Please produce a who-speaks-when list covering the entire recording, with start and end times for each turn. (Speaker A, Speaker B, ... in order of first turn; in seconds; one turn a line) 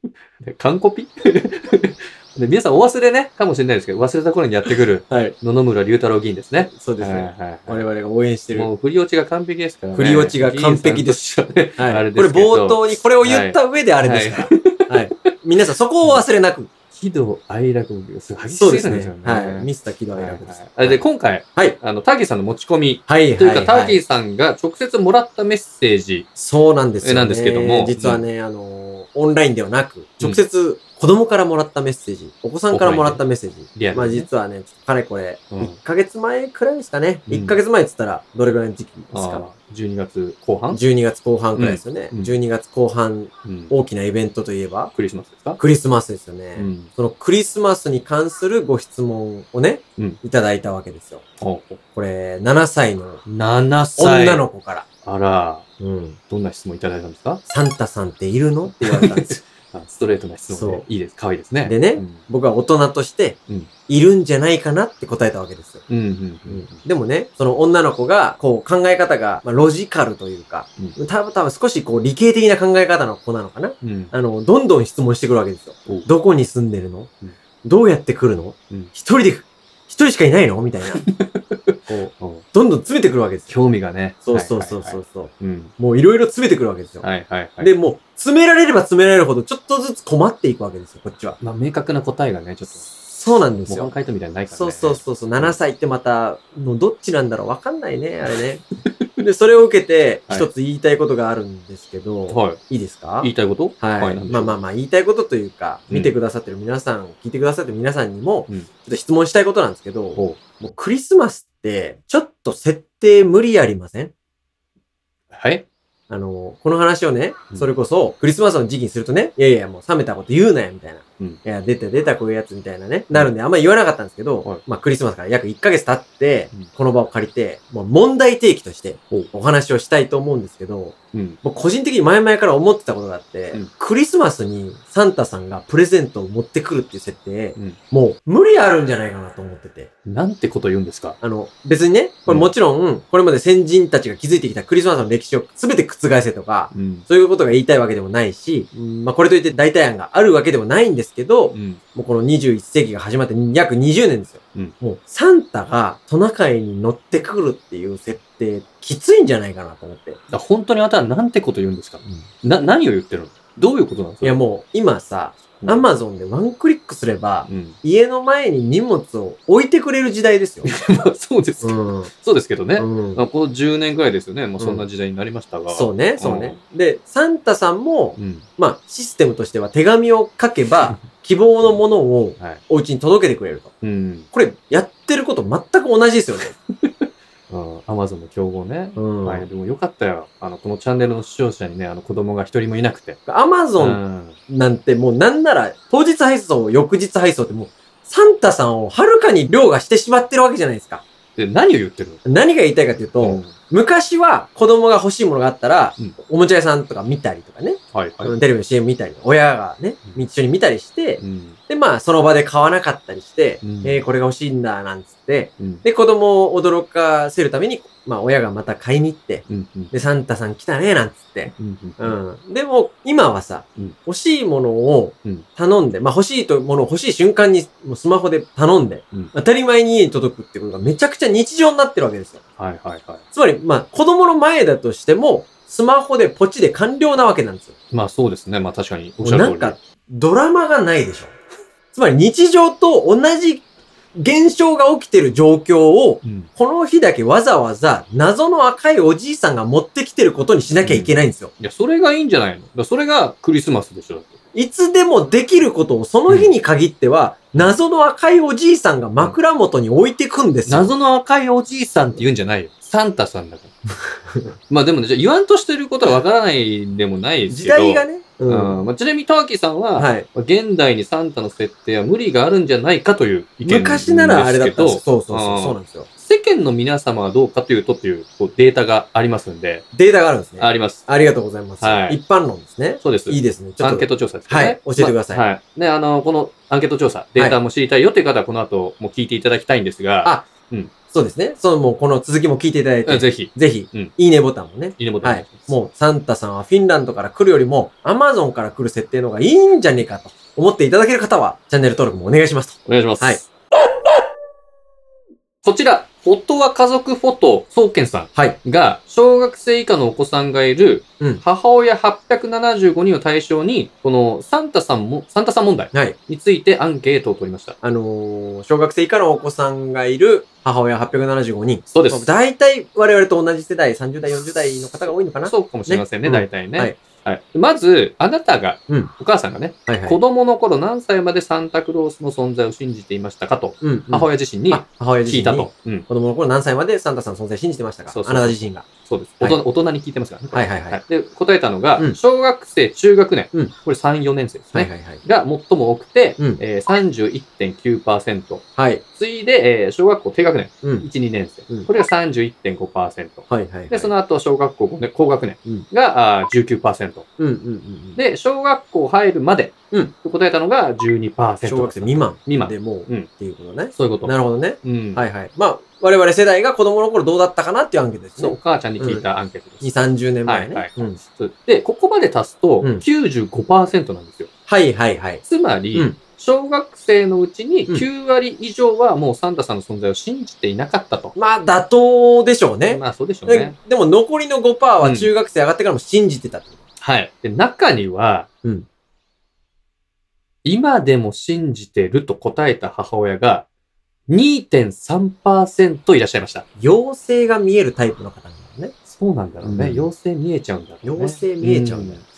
Speaker A: 0.4-7.8
Speaker B: 5.1-5.3
Speaker B: 6.6-8.7
Speaker A: 8.5-15.3
Speaker B: 9.9-11.2
Speaker B: 11.8-16.7
Speaker A: 16.9-26.3
Speaker B: 18.5-21.0
Speaker B: 23.1-24.0
Speaker B: 26.4-39.4
Speaker A: 27.0-28.2
Speaker A: 32.7-33.2
Speaker A: 33.7-34.3
Speaker A: 37.3-37.6
Speaker A: 39.1-40.8
Speaker B: 40.7-44.9
Speaker A: 41.5-42.3
Speaker A: 43.4-43.7
Speaker A: 44.9-45.6
Speaker B: 45.6-51.2
Speaker A: 46.5-46.9
Speaker A: 51.4-51.8
Speaker B: 51.9-53.2
Speaker A: 53.2-54.4
Speaker B: 54.0-54.9
Speaker A: 55.0-55.7
Speaker B: 55.8-56.2
Speaker A: 56.3-57.4
Speaker B: 57.5-59.4
Speaker A: 58.7-62.2
Speaker B: 60.5-60.8
Speaker B: 61.6-65.8
Speaker A: 65.9-66.8
Speaker B: 66.5-77.1
Speaker A: 73.8-74.1
Speaker B: 77.6-81.0
Speaker A: 80.9-82.4
Speaker B: 81.9-83.5
Speaker A: 83.5-85.7
Speaker B: 84.2-87.0
Speaker A: 87.0-87.7
Speaker B: 87.6-91.4
Speaker A: 91.4-92.9
Speaker B: 92.8-93.9
Speaker A: 93.7-95.6
Speaker B: 94.5-98.6
Speaker B: 99.2-114.1
Speaker A: 102.3-102.6
Speaker A: 103.2-104.6
Speaker A: 105.9-106.1
Speaker A: 115.3-115.7
Speaker B: 116.1-139.9
Speaker A: 131.1-131.4
Speaker A: 140.1-141.2
Speaker B: 141.2-160.2
Speaker A: 142.3-142.5
Speaker A: 146.7-147.1
Speaker A: 151.5-151.8
Speaker A: 160.3-164.4
Speaker B: 164.2-170.7
Speaker A: 165.6-165.9
Speaker A: 167.4-167.8
Speaker A: 170.6-176.6
Speaker B: 171.6-172.1
Speaker B: 172.8-173.2
Speaker B: 174.6-174.8
Speaker B: 175.7-183.7
Speaker A: 178.2-178.4
Speaker A: 183.8-184.3
Speaker B: 184.3-186.5
Speaker A: 186.8-193.2
Speaker B: 188.9-189.5
Speaker B: 193.3-201.0
Speaker A: 193.8-194.4
Speaker A: 201.3-202.2
Speaker B: 202.2-232.4
Speaker A: 203.2-203.5
Speaker A: 207.9-208.3
Speaker A: 211.2-211.6
Speaker A: 213.6-214.0
Speaker A: 215.6-215.8
Speaker A: 219.5-219.9
Speaker A: 221.5-222.2
Speaker A: 232.6-233.2
Speaker B: 233.3-237.7
Speaker A: 237.9-239.8
Speaker B: 239.2-241.3
Speaker B: 241.9-251.5
Speaker A: 246.2-246.5
Speaker A: 250.8-254.3
Speaker B: 254.5-260.9
Speaker A: 256.3-256.5
Speaker A: 260.7-263.8
Speaker A: 264.7-279.9
Speaker B: 267.5-268.8
Speaker B: 269.9-270.3
Speaker B: 273.6-276.1
Speaker B: 279.9-285.4
Speaker A: 280.6-281.1
Speaker A: 281.8-282.2
Speaker A: 283.0-290.9
Speaker B: 291.1-303.4
Speaker A: 293.0-294.1
Speaker A: 295.0-295.8
Speaker A: 302.9-303.5
Speaker A: 305.6-317.8
Speaker B: 317.8-327.0
Speaker A: 321.9-322.3
Speaker A: 324.3-336.1
Speaker B: 329.9-330.2
Speaker B: 333.8-338.9
Speaker A: 338.1-348.6
Speaker B: 340.5-341.0
Speaker B: 344.7-345.2
Speaker B: 348.8-349.0
Speaker A: 349.1-357.3
Speaker B: 353.5-354.1
Speaker B: 357.4-358.2
Speaker A: 358.1-363.3
Speaker B: 361.6-369.2
Speaker A: 363.9-365.2
Speaker A: 368.4-369.9
Speaker B: 369.8-371.2
Speaker A: 370.4-374.5
Speaker B: 374.7-375.4
Speaker A: 375.4-381.3
Speaker B: 381.3-386.8
Speaker A: 382.9-383.8
Speaker A: 385.0-385.3
Speaker A: 387.0-388.5
Speaker A: 390.6-393.7
Speaker A: 394.3-396.6
Speaker B: 396.8-398.9
Speaker A: 399.1-402.2
Speaker B: 399.6-400.1
Speaker B: 401.0-402.2